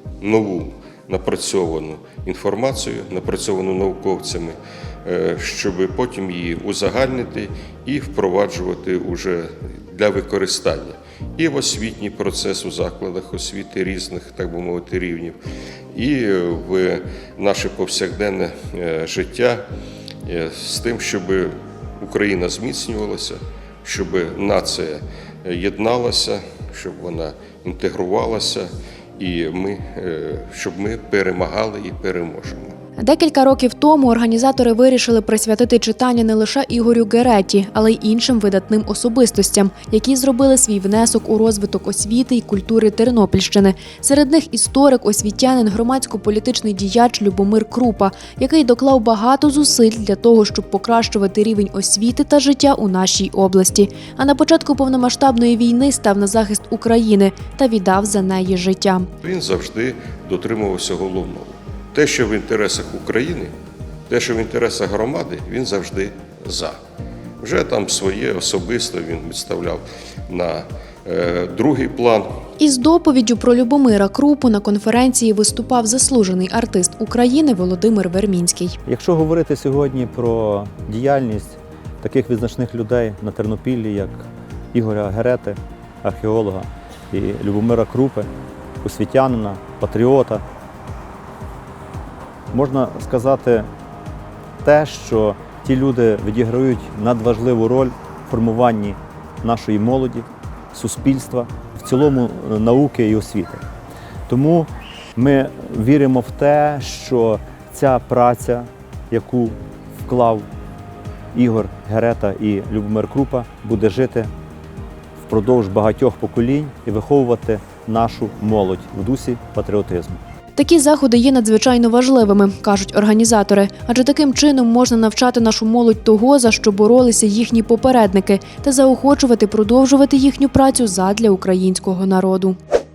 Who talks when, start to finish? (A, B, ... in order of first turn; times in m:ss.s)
0:00.2-0:15.4 A
0:15.9-0:19.6 A
0:20.3-0:32.8 A
0:33.0-0:59.1 B
0:59.2-1:03.5 A
1:04.1-1:06.8 A
1:07.4-1:12.3 A
1:12.6-1:18.8 B
1:18.9-1:28.3 C
1:28.8-1:30.4 C
1:32.5-1:33.7 C
1:34.6-1:43.6 C
1:44.3-1:50.5 C
1:51.3-1:54.3 C
1:55.3-2:00.2 C
2:00.6-2:12.6 B